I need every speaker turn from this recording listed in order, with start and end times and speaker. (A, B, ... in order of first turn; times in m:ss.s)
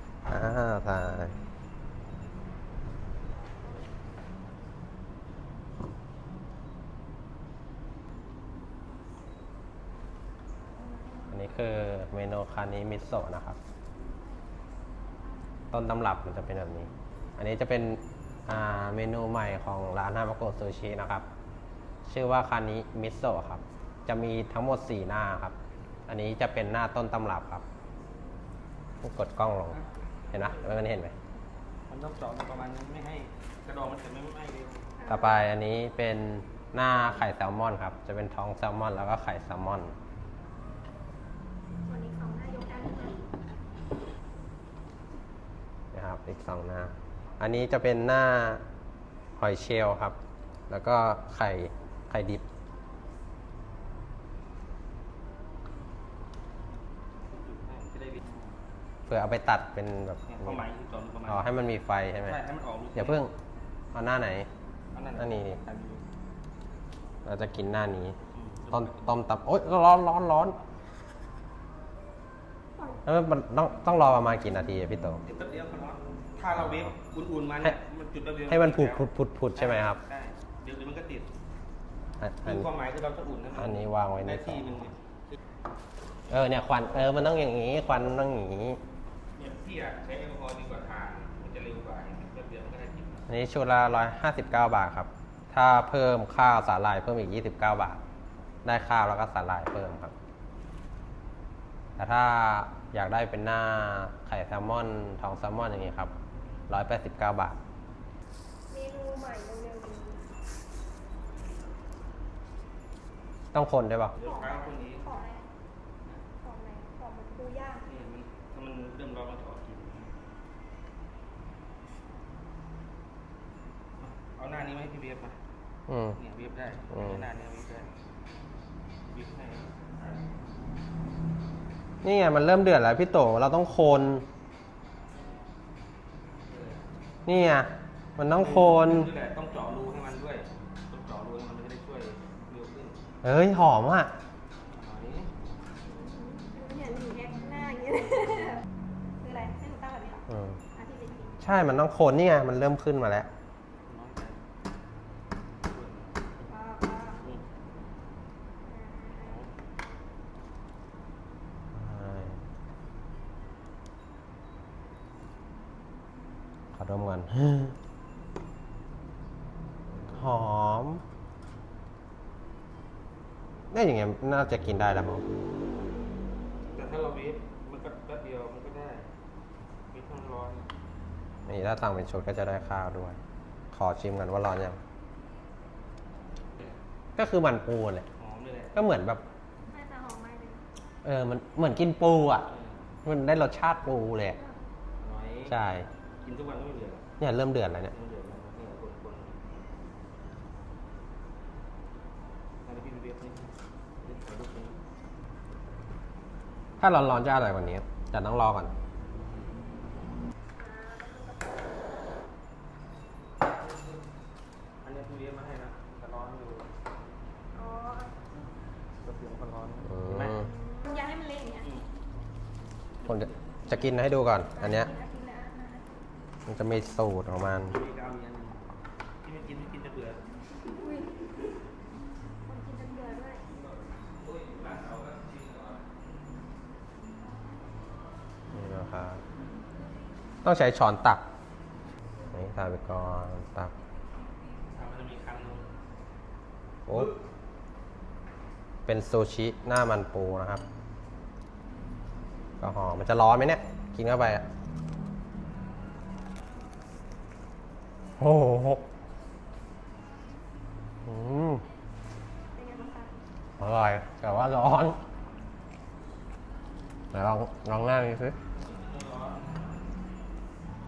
0:00.3-0:01.3 A
0:11.3-0:13.6 A
0:15.7-0:21.2 A
0:22.0-0:25.6 A
0:26.1-0:27.6 A
0:29.0-0:29.8 A
0:29.7-0:30.8 B
0:30.3-0:31.1 A
0:31.9-0:34.8 B
0:35.0-0:35.5 C
0:35.1-0:39.9 A
0:41.8-0:43.2 C
0:45.9-0:48.6 A
0:49.4-0:50.2 A
0:50.7-0:52.4 A
0:57.3-0:58.5 B
0:59.1-1:00.6 A
1:00.3-1:01.5 B
1:01.3-1:02.4 A
1:02.2-1:03.3 B
1:02.9-1:03.3 A
1:03.9-1:04.5 A
1:04.9-1:06.0 B
1:05.2-1:05.6 A
1:07.2-1:08.2 A
1:08.3-1:09.1 B
1:08.7-1:10.6 A
1:12.8-1:13.0 C
1:13.0-1:15.2 A
1:15.2-1:21.3 B
1:16.6-1:16.9 A
1:18.5-1:20.0 A
1:22.2-1:22.7 A
1:22.4-1:24.9 B
1:23.5-1:24.6 A
1:26.3-1:28.8 A
1:29.4-1:33.2 B
1:33.3-1:38.0 A
1:38.6-1:40.1 A
1:42.0-1:46.1 A
1:46.7-1:47.6 A
1:48.7-1:50.2 C
1:53.5-1:54.2 A
1:54.1-1:55.1 B
1:54.2-1:55.4 C
1:56.4-1:57.8 C
1:57.8-2:00.1 B
2:04.0-2:05.3 B
2:05.9-2:06.2 A
2:06.2-2:07.9 B
2:06.9-2:07.2 A
2:09.0-2:10.2 B
2:12.0-2:14.2 A
2:16.5-2:16.8 B
2:17.2-2:19.1 A
2:18.3-2:23.0 B
2:23.2-2:24.1 A
2:24.7-2:25.3 B
2:25.8-2:28.6 C
2:29.2-2:31.4 C
2:30.3-2:30.6 A
2:31.4-2:33.3 A
2:33.8-2:34.4 B
2:35.6-2:36.5 B
2:36.5-2:37.2 C
2:38.6-2:39.4 C
2:39.2-2:39.5 B
2:41.7-2:42.4 A
2:46.7-2:47.8 A
2:50.1-2:51.0 A
2:53.7-2:55.2 A
2:56.7-2:59.1 B
2:59.9-3:00.7 B
3:01.5-3:03.2 A
3:03.7-3:04.8 A
3:07.2-3:08.0 A
3:08.2-3:08.8 B
3:08.7-3:09.2 A
3:09.7-3:10.6 C
3:11.0-3:12.5 A
3:12.5-3:12.8 B
3:13.0-3:14.4 A
3:15.0-3:15.5 B
3:15.5-3:15.9 A
3:16.2-3:17.0 B
3:17.2-3:17.9 A
3:17.9-3:19.4 B
3:22.6-3:23.5 B
3:24.0-3:24.8 B
3:26.8-3:28.7 A
3:30.6-3:31.7 C
3:34.8-3:36.7 B
3:37.5-3:38.1 C
3:39.0-3:40.4 B
3:40.0-3:40.5 A
3:40.3-3:41.7 C
3:43.0-3:44.9 A
3:44.5-3:45.9 C
3:46.5-3:47.8 A
3:47.7-3:48.6 B
3:49.2-3:50.2 B
3:50.8-3:51.1 C
3:52.4-3:53.4 C
3:53.5-3:55.8 B
3:58.5-3:59.2 A
4:00.4-4:01.2 A
4:02.3-4:03.7 A
4:04.7-4:05.7 B
4:08.8-4:10.6 A
4:12.6-4:14.4 A
4:18.2-4:18.8 A
4:21.0-4:21.6 A
4:22.5-4:23.1 C
4:23.6-4:25.0 A
4:27.1-4:28.3 A
4:28.5-4:29.6 B